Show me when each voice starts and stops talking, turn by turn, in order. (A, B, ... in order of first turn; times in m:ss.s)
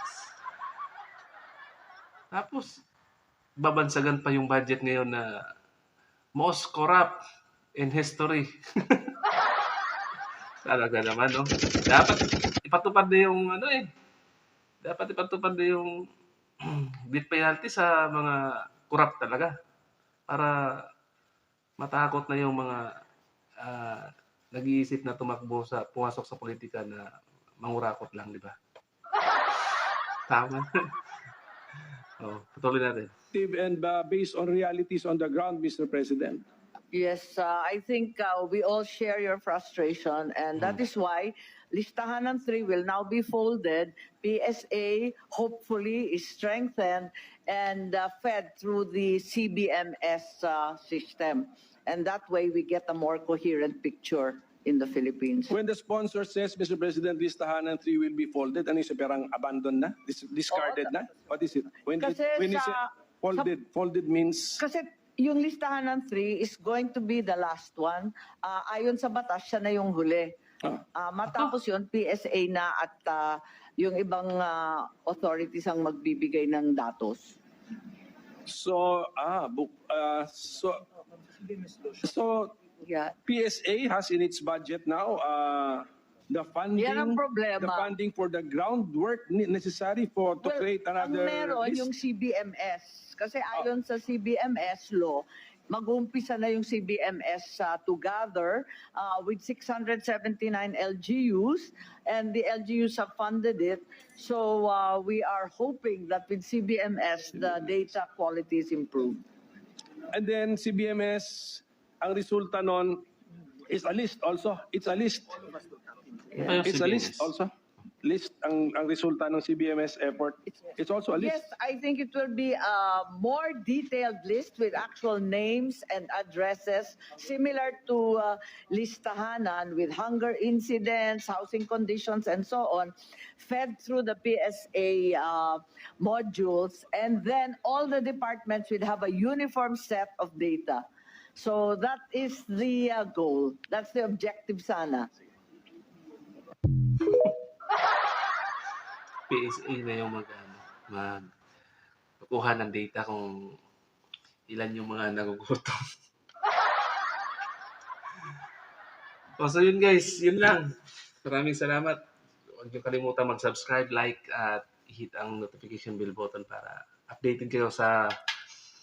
0:02.3-0:02.8 A
0:03.6-0:05.2 A
0:06.3-0:07.1 A
0:07.8-0:09.1 A
0:10.6-0:13.9 A
0:14.8-0:16.0 A
0:16.6-0:19.5 A
0:20.3-0:20.6 A
0:21.8-0:22.9 A
0:23.6-0:27.0 A
0:27.6-0:28.6 A
0:30.3-0:30.7 A
0:32.2-0:33.1 A
0:33.3-0:36.4 B
0:36.9-0:55.5 C
0:40.6-0:40.8 A
0:55.5-1:04.6 B
1:00.5-1:00.9 C
1:02.0-1:03.5 C
1:04.6-1:10.3 C
1:10.9-1:17.4 C
1:11.2-1:11.5 A
1:18.4-1:20.8 B
1:21.9-1:22.6 B
1:22.8-1:23.2 C
1:23.2-1:31.9 B
1:26.8-1:27.9 C
1:30.4-1:49.2 C
1:50.1-1:53.0 B
1:53.7-1:55.7 B
1:56.3-1:57.3 A
1:56.6-1:57.5 B
1:58.0-2:01.5 B
2:00.5-2:20.8 C
2:21.3-2:25.1 C
2:27.0-2:27.3 A
2:29.3-2:31.3 A
2:32.2-2:33.5 A
2:34.5-2:35.8 A
2:39.4-2:40.7 A
2:41.2-2:42.0 A
2:42.5-2:48.1 A